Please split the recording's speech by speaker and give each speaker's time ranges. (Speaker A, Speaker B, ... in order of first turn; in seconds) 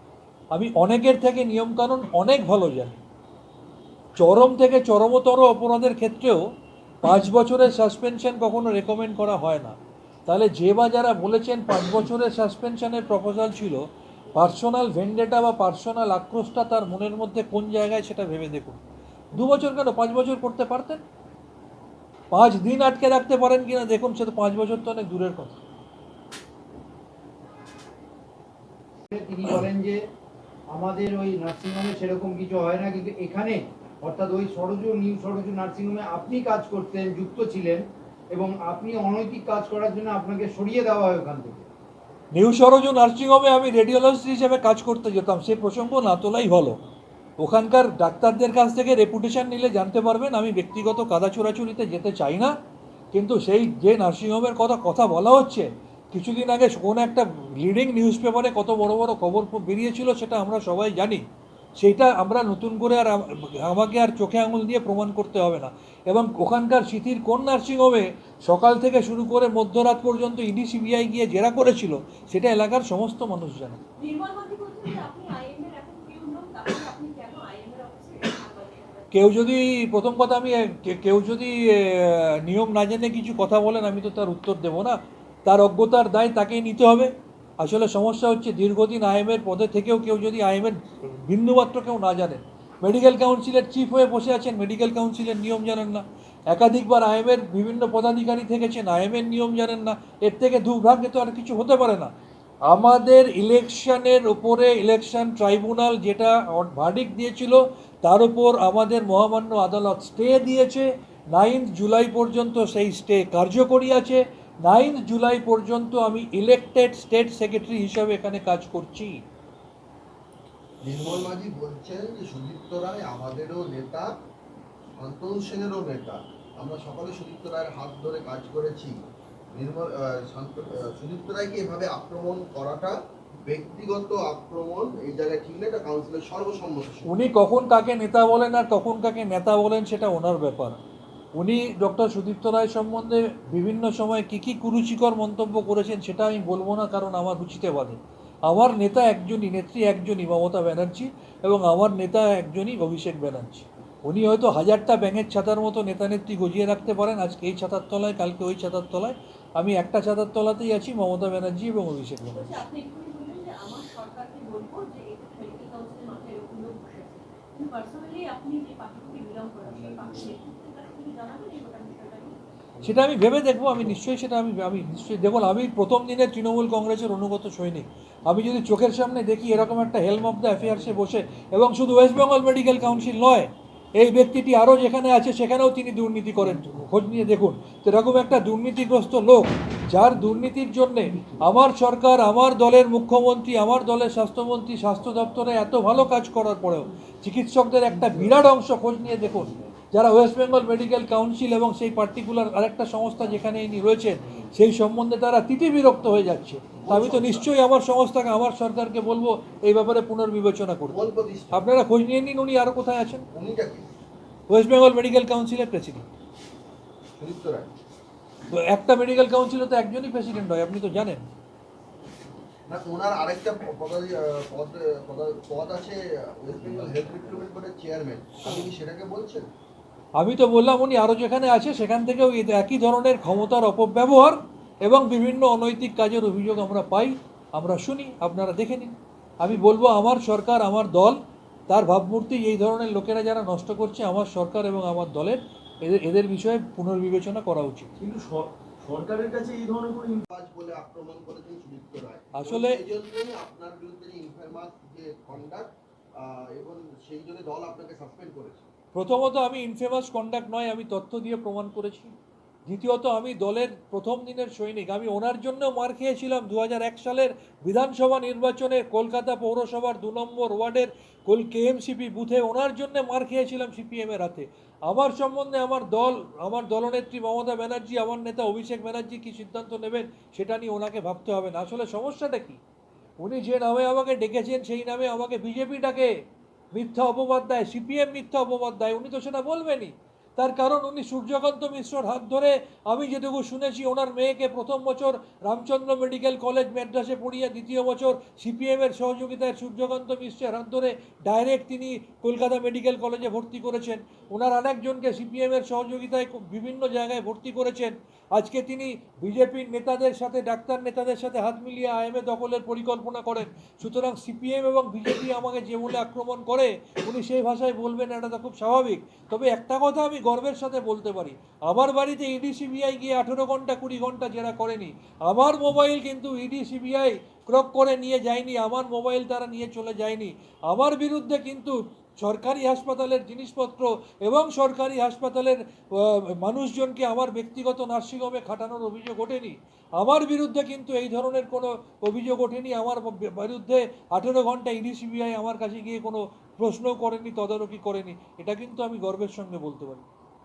Speaker A: 0.5-3.0, 4.2-6.5, 7.0-9.8, 10.3-18.8, 19.3-21.0, 22.3-25.6, 42.3-46.8, 47.4-52.5, 53.1-61.2, 61.8-73.8, 79.1-102.1, 102.7-119.2, 137.1-140.8, 141.4-162.5, 172.8-213.2, 214.5-216.1, 218.5-221.3, 230.2-247.9, 252.3-252.8, 258.9-262.1, 262.7-282.6, 283.2-286.1, 286.7-350.0
Speaker B: 29.1-30.0, 30.7-41.6
Speaker C: 74.0-79.2, 162.3-172.3
Speaker D: 120.8-124.1, 125.0-128.9, 129.5-137.1, 206.8-207.5, 210.9-211.7, 213.3-213.9, 217.2-217.7, 222.7-229.5, 250.3-258.6
Speaker E: 248.0-250.2